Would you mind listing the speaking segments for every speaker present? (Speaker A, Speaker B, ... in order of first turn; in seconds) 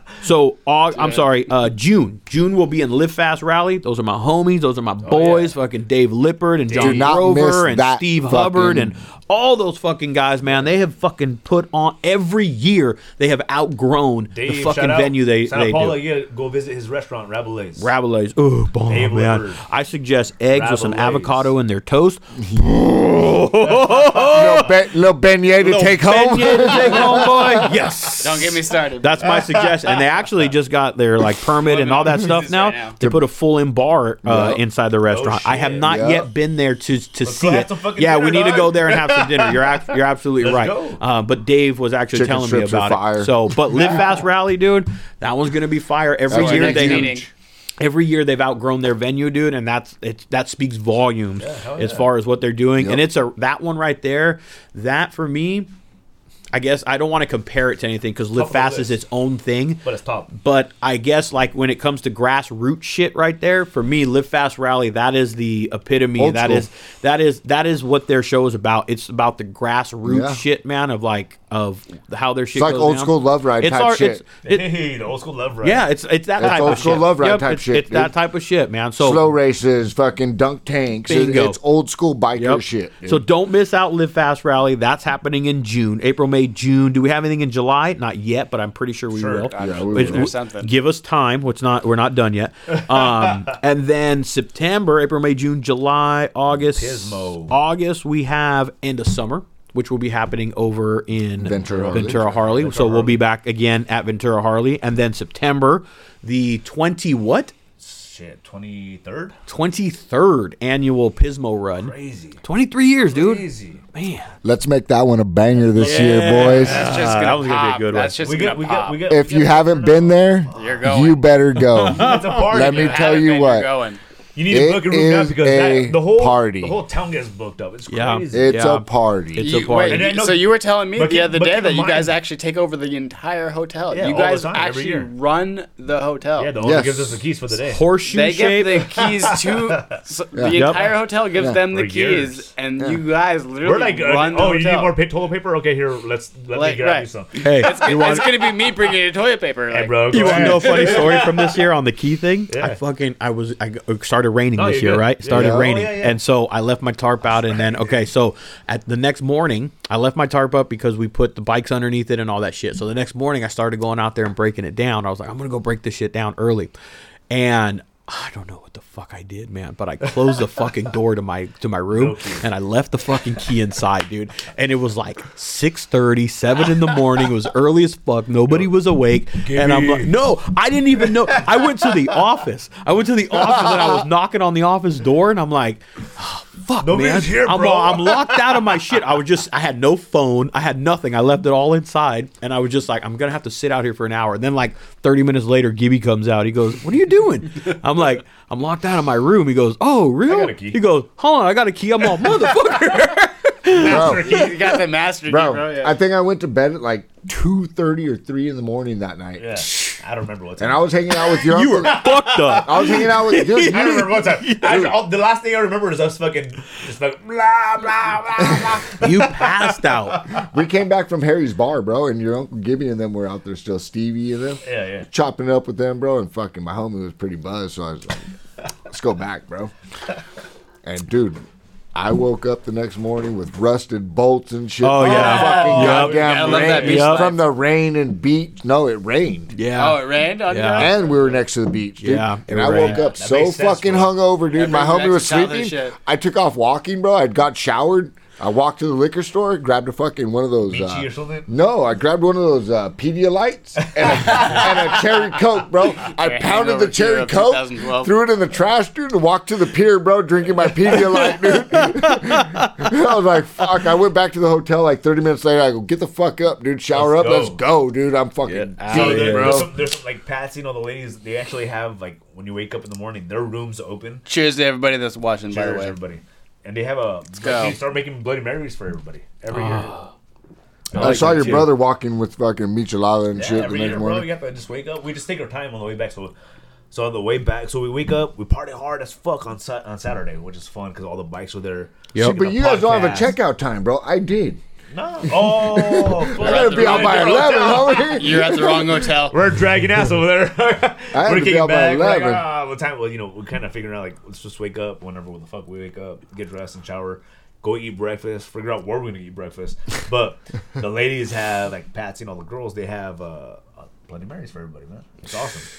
Speaker A: 0.2-16.0, 17.8-24.7, 25.6-47.2, 47.8-55.7, 56.5-74.7, 75.6-79.2, 81.1-81.6, 82.4-107.5, 109.5-114.3, 115.8-118.3, 121.6-122.4, 127.9-130.1, 137.7-138.9, 140.5-140.8, 147.4-148.4, 150.1-166.7, 167.3-204.4, 209.6-210.0, 211.5-214.9, 219.0-220.2, 234.8-237.3, 239.6-240.9, 242.0-243.0, 260.9-263.0, 268.5-269.7, 279.5-280.0, 280.9-281.7
Speaker B: 5.0-5.5, 6.7-7.1, 14.3-17.9, 18.9-19.6, 20.5-21.5, 23.6-24.7, 35.1-36.0, 37.2-39.8, 40.4-41.0, 51.4-52.1, 58.3-59.0, 59.8-60.3, 74.5-75.9, 76.4-77.0, 89.1-89.5, 92.7-93.5, 96.6-97.6, 101.6-103.2, 107.8-109.4, 111.8-112.4, 113.1-113.8, 118.2-120.8, 121.9-123.3, 124.4-128.7, 129.8-132.2, 133.9-135.1, 136.4-137.8, 138.8-140.0, 140.7-141.0, 141.7-142.5, 143.6-147.4, 149.7-151.4, 152.5-152.8, 154.6-156.2, 157.5-157.9, 171.9-172.4, 179.4-180.2, 181.0-182.2, 186.8-188.7, 200.2-200.8, 203.7-204.8, 209.4-220.5, 224.6-225.1, 235.0-237.1, 242.7-244.1, 250.7-251.5, 253.8-254.8, 266.9-267.6, 268.9-274.2, 275.5-280.0, 280.9-281.7, 283.4-286.3, 286.9-293.4, 294.9-315.7
Speaker C: 6.8-9.0, 24.2-27.7, 34.2-34.6, 35.8-36.3, 42.1-43.4, 46.3-47.3, 66.2-66.7, 70.0-70.4, 72.5-74.2, 76.4-78.1, 79.0-83.2, 89.6-90.3, 101.4-102.2, 114.4-117.0, 119.1-123.7, 124.5-126.8, 128.3-129.5, 136.6-137.2, 140.3-140.6, 141.4-141.6, 155.3-155.9, 183.4-183.8, 203.8-204.4, 205.3-209.6, 210.6-214.9, 218.4-218.7, 220.5-228.2, 228.9-229.7, 230.8-231.4, 231.9-239.6, 240.8-269.8, 281.0-284.3, 292.2-294.6, 295.3-299.0, 301.1-302.4
Speaker D: 28.2-30.0, 31.6-33.0, 46.3-47.3, 89.5-90.7, 115.8-119.3, 120.5-121.2, 122.5-124.0, 129.4-136.5, 138.0-144.9, 146.5-151.6, 204.2-206.0, 235.0-237.4, 239.7-241.4, 244.5-245.9, 256.0-258.2, 274.3-275.9, 277.4-277.8, 296.4-299.4